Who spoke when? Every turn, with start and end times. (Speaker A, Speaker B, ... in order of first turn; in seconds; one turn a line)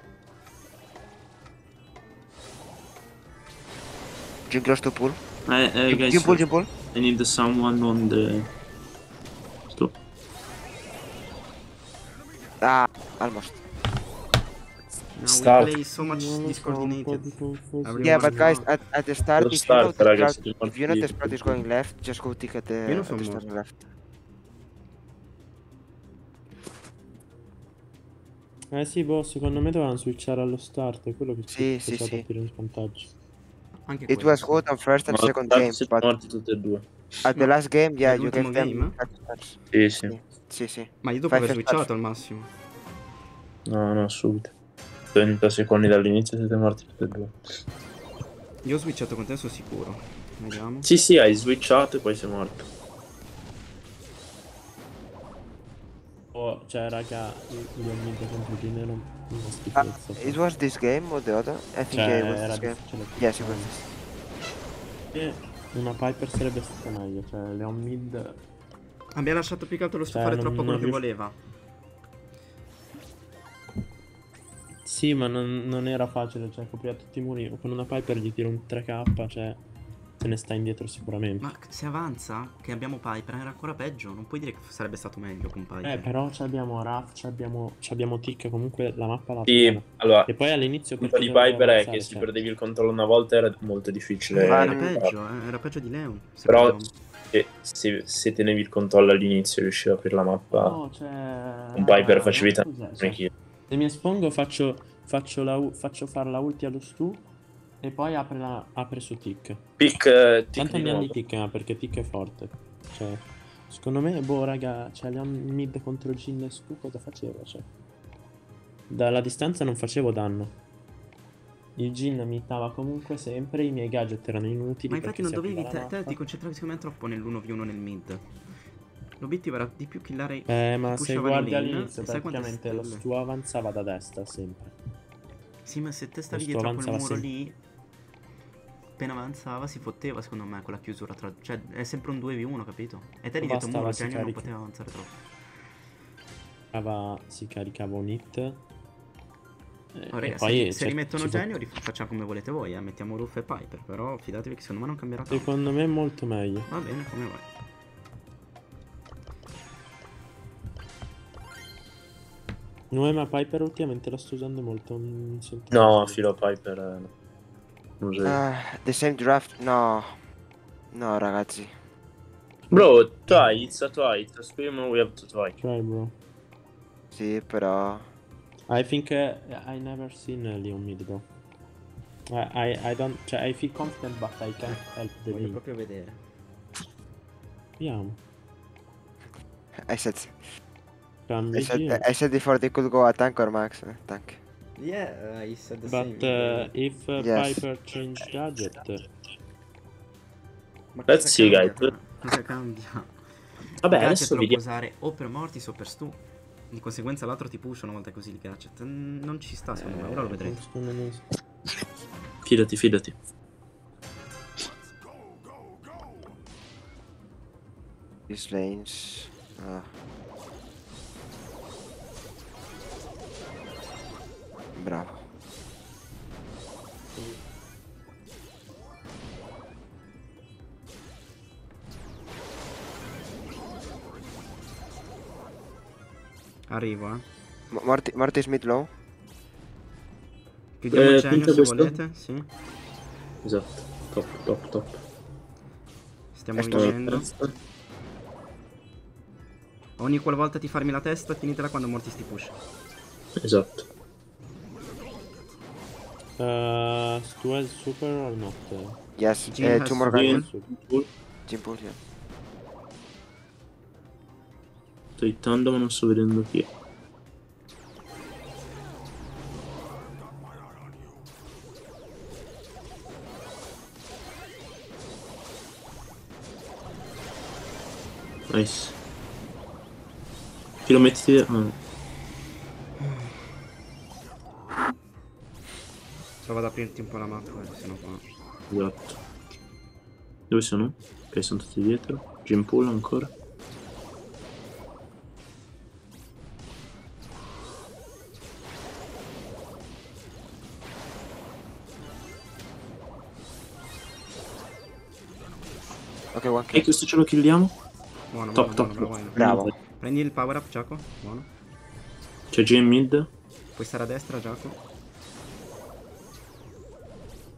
Speaker A: 4.5-5.2
Speaker B: 5.5-8.5
Speaker A: 5.9-6.7
Speaker A: 12.6-13.6
Speaker C: 15.2-18.7
Speaker B: 15.2-15.7
Speaker D: 16.0-18.5
Speaker A: 18.0-23.8
Speaker B: 19.4-21.6
Speaker C: 22.9-23.5
Speaker D: 28.7-33.1
Speaker A: 31.5-32.2
Speaker C: 33.9-34.6
Speaker A: 34.1-36.1
Speaker B: 35.1-36.9
Speaker A: 37.2-41.9
Speaker C: 37.3-39.0
Speaker B: 39.7-40.1
Speaker C: 41.0-42.5
Speaker B: 43.6-44.5
Speaker B: 45.1-47.3
Speaker C: 48.6-50.9
Speaker B: 50.8-52.7
Speaker D: 56.3-60.4
Speaker A: 59.7-63.8
Speaker D: 61.9-63.9
Speaker D: 65.1-68.4
Speaker C: 69.1-71.3
Speaker D: 70.1-71.0
Speaker D: 74.8-79.6
Speaker D: 80.2-81.5
Speaker C: 81.4-86.1
Speaker D: 85.8-92.4
Speaker B: 89.5-90.4
Speaker B: 91.0-95.1
Speaker C: 94.3-96.9
Speaker A: 94.4-94.9
Speaker B: 96.5-96.8
Speaker B: 97.3-100.8
Speaker D: 100.6-107.2
Speaker B: 101.8-103.3
Speaker D: 107.8-109.6
Speaker B: 109.8-111.1
Speaker D: 110.5-117.7
Speaker D: 118.9-120.5
Speaker D: 121.8-126.2
Speaker C: 124.9-128.3
Speaker C: 129.2-133.0
Speaker D: 130.5-134.7
Speaker C: 135.6-137.6
Speaker D: 136.3-137.3
Speaker C: 139.0-145.1
Speaker D: 143.4-144.5
Speaker D: 146.7-148.6
Speaker D: 149.9-151.6
Speaker C: 150.1-155.5
Speaker D: 155.3-156.7
Speaker C: 156.7-157.4
Speaker D: 162.9-166.2
Speaker B: 165.7-167.1
Speaker B: 168.0-168.4
Speaker A: 168.2-170.1
Speaker A: 170.9-171.7
Speaker D: 172.7-173.5
Speaker B: 172.7-175.6
Speaker D: 175.6-176.1
Speaker A: 177.1-178.1
Speaker D: 178.7-181.3
Speaker D: 182.3-185.6
Speaker C: 184.7-186.2
Speaker D: 187.8-188.2
Speaker A: 189.8-190.3
Speaker D: 191.3-192.1
Speaker A: 191.5-194.4
Speaker C: 194.8-196.7
Speaker D: 195.8-199.1
Speaker A: 197.2-197.6
Speaker C: 200.9-203.1
Speaker B: 201.1-201.9
Speaker C: 203.7-206.2
Speaker B: 203.8-204.6
Speaker C: 206.7-210.6
Speaker D: 209.8-211.2
Speaker B: 212.4-213.2
Speaker A: 218.3-219.9
Speaker A: 224.8-225.2
Speaker C: 236.7-237.2
Speaker A: 237.7-238.9
Speaker C: 240.8-242.5
Speaker B: 240.9-241.9
Speaker B: 243.4-245.0
Speaker C: 246.3-247.3
Speaker A: 246.6-246.9
Speaker B: 246.7-247.5
Speaker C: 250.0-252.6
Speaker B: 253.4-253.8
Speaker D: 256.4-259.0
Speaker A: 259.2-260.4
Speaker C: 259.5-260.5
Speaker B: 260.1-261.1
Speaker D: 260.1-260.7
Speaker A: 261.5-262.0
Speaker B: 265.2-266.7
Speaker B: 278.5-278.9
Speaker B: 280.9-281.7
Speaker C: 283.0-283.3
Speaker C: 286.4-288.2
Speaker B: 288.7-289.2
Speaker B: 290.5-293.3
Speaker A: 306.3-306.9
Speaker B: 306.7-307.7
Speaker C: 308.3-311.5
Speaker B: 308.5-309.7
Speaker A: 309.4-309.7
Speaker B: 312.5-313.3
Speaker C: 313.8-314.8